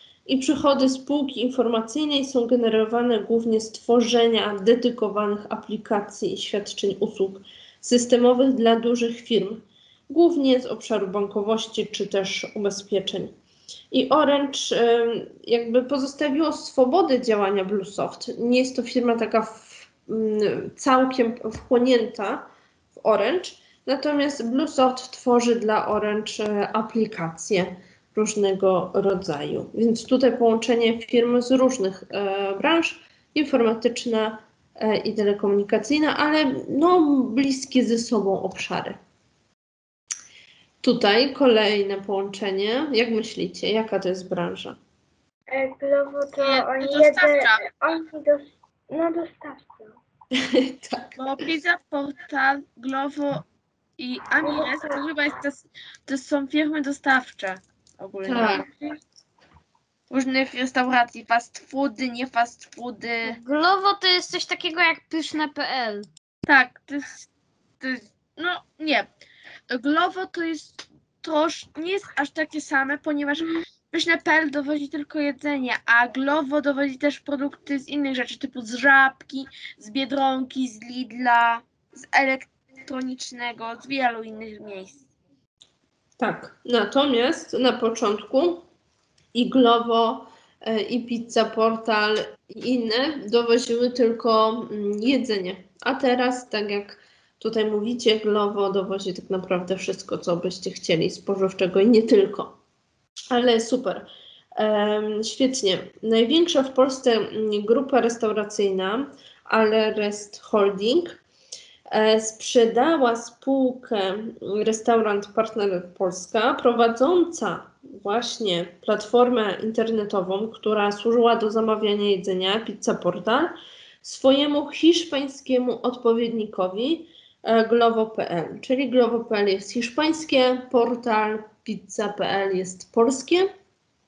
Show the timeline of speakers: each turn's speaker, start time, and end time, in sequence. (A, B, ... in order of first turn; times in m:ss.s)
0:00.3-0:13.3 A
0:13.9-0:39.0 A
0:40.8-0:44.8 A
0:45.5-0:50.0 B
0:46.4-0:47.6 C
0:50.3-0:51.2 A
0:51.2-0:53.4 C
0:54.0-0:58.7 C
0:54.4-0:55.0 B
0:58.3-0:58.6 A
1:00.1-1:03.4 C
1:03.2-1:06.1 D
1:06.4-1:07.2 C
1:07.8-1:09.1 C
1:09.7-1:25.0 C
1:26.2-1:28.6 A
1:29.3-1:42.5 A
1:43.3-1:51.2 A
1:51.9-2:13.5 A